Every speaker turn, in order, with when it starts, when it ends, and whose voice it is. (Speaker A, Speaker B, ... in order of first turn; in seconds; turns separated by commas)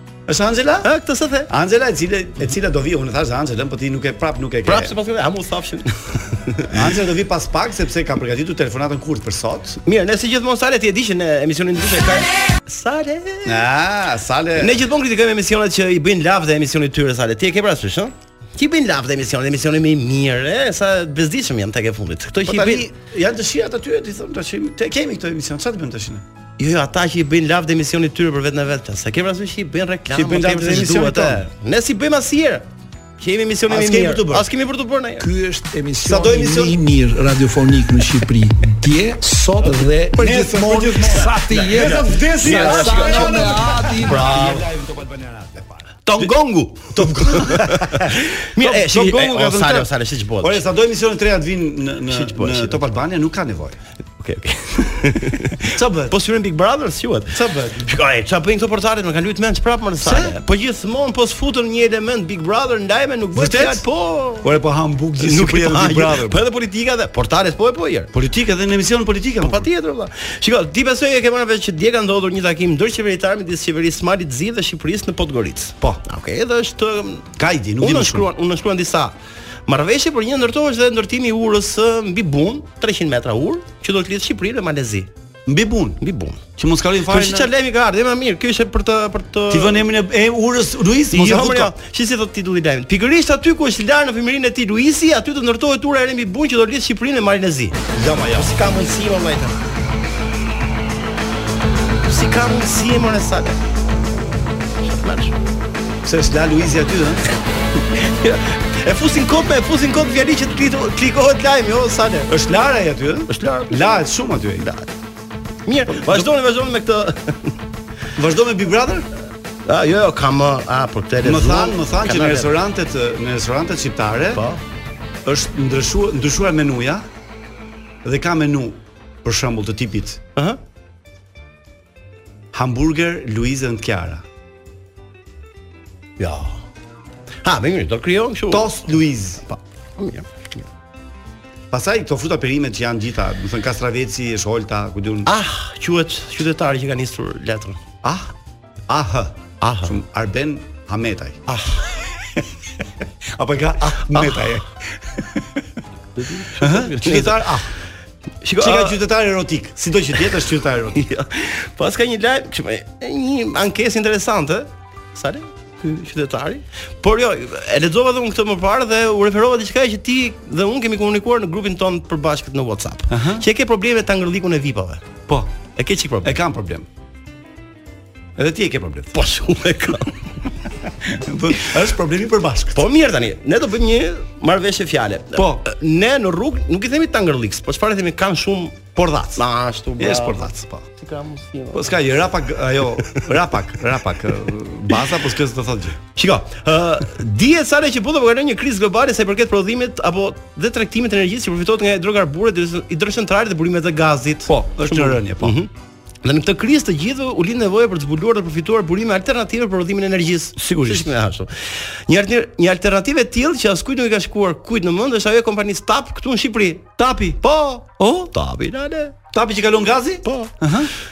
Speaker A: 0.3-0.9, Speaker B: 0.8-1.5, Speaker A: 1.5-4.9, Speaker B: 4.7-6.8, Speaker A: 6.7-9.8, Speaker B: 9.8-13.6, Speaker A: 13.4-14.8, Speaker B: 14.6-22.9, Speaker A: 22.4-26.2, Speaker B: 26.6-32.6, Speaker A: 30.1-31.4, Speaker B: 33.2-35.3, Speaker A: 33.7-34.5, Speaker C: 35.2-44.2, Speaker A: 36.0-36.8, Speaker A: 40.1-46.3, Speaker B: 41.7-44.6, Speaker B: 46.0-50.6, Speaker A: 46.9-49.9, Speaker A: 50.4-53.8, Speaker B: 52.1-52.8, Speaker B: 54.2-64.5, Speaker A: 55.6-56.1, Speaker A: 57.3-57.9, Speaker A: 60.0-60.4, Speaker A: 63.3-63.8, Speaker A: 64.4-66.4, Speaker B: 65.2-68.1, Speaker A: 68.1-69.7, Speaker B: 69.4-79.2, Speaker A: 77.4-78.3, Speaker B: 79.7-85.1, Speaker A: 85.5-86.0, Speaker B: 86.0-86.4, Speaker A: 86.6-87.5, Speaker B: 87.1-89.8, Speaker A: 89.5-91.7, Speaker B: 91.1-97.8, Speaker A: 97.9-98.5, Speaker B: 98.3-99.6, Speaker B: 102.1-103.6, Speaker B: 104.8-105.3, Speaker A: 106.0-107.3, Speaker B: 108.0-112.3, Speaker A: 112.3-114.7, Speaker B: 113.3-114.0, Speaker B: 114.6-114.9, Speaker B: 115.7-117.6, Speaker A: 118.2-119.1, Speaker B: 119.7-122.5, Speaker A: 121.2-124.5, Speaker B: 124.3-124.6, Speaker A: 125.2-127.0, Speaker A: 128.0-130.2, Speaker A: 132.5-134.2, Speaker B: 136.2-136.6, Speaker B: 137.4-138.8, Speaker A: 138.5-139.4, Speaker B: 139.5-140.7, Speaker A: 141.7-145.3, Speaker B: 145.2-147.8, Speaker A: 148.0-148.3, Speaker A: 148.9-152.5, Speaker B: 149.6-150.0, Speaker B: 151.5-151.9, Speaker A: 153.4-155.6, Speaker B: 153.8-154.5, Speaker B: 156.2-157.6, Speaker A: 156.6-157.7, Speaker B: 158.4-159.0, Speaker A: 158.6-161.0, Speaker B: 160.9-175.2, Speaker A: 173.1-173.4, Speaker B: 175.8-176.3, Speaker A: 176.2-176.9, Speaker A: 178.3-179.2, Speaker B: 179.1-180.2, Speaker A: 181.0-182.8, Speaker B: 182.7-192.0, Speaker A: 185.3-185.6, Speaker A: 188.9-189.4, Speaker A: 190.0-190.8, Speaker A: 191.7-196.0, Speaker B: 196.2-205.7, Speaker A: 204.5-205.6, Speaker B: 206.2-219.2, Speaker A: 210.6-211.1, Speaker A: 217.0-217.4, Speaker A: 218.0-218.3, Speaker A: 219.3-220.9, Speaker B: 220.2-220.5